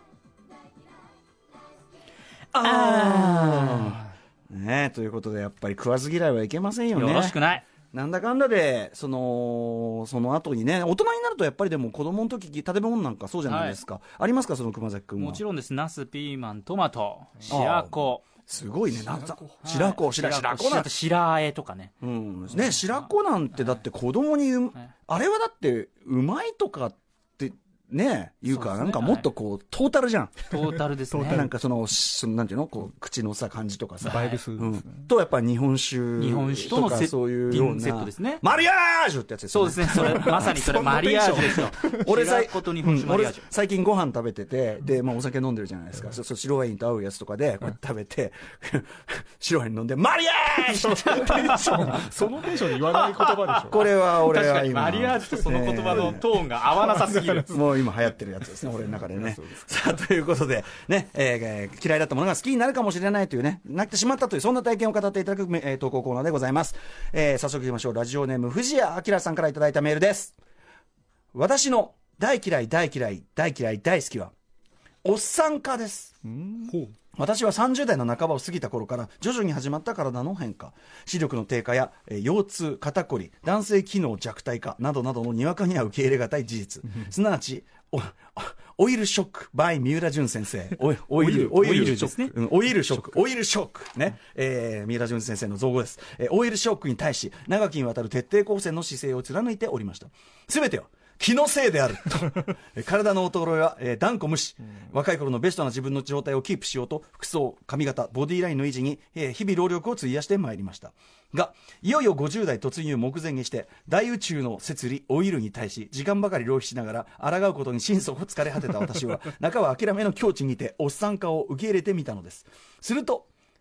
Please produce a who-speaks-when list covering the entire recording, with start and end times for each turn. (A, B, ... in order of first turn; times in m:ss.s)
0:02.5-0:15.4 A
0:02.5-0:04.0 B
0:06.9-0:07.7 B
0:13.5-0:13.8 B
0:15.2-0:18.2 B
0:17.5-0:20.9 A
0:19.6-0:21.9 B
0:22.0-0:30.4 A
0:22.9-0:23.8 B
0:28.5-0:29.3 B
0:30.5-0:31.5 B
0:31.1-0:31.5 C
0:31.2-0:40.6 A
0:34.0-0:34.4 B
0:34.1-0:35.0 C
0:36.2-0:38.4 B
0:39.5-0:43.4 B
0:40.3-0:42.0 C
0:41.4-0:52.3 A
0:50.8-0:53.8 C
0:51.1-0:52.0 B
0:52.9-0:57.5 B
0:53.7-0:56.2 A
0:55.9-0:56.2 C
0:56.7-0:57.6 C
0:57.5-1:10.4 A
0:59.0-0:59.6 C
1:11.3-1:14.3 A
1:15.0-1:16.2 A
1:16.2-1:16.9 C
1:17.1-2:03.3 A
1:31.2-1:32.3 B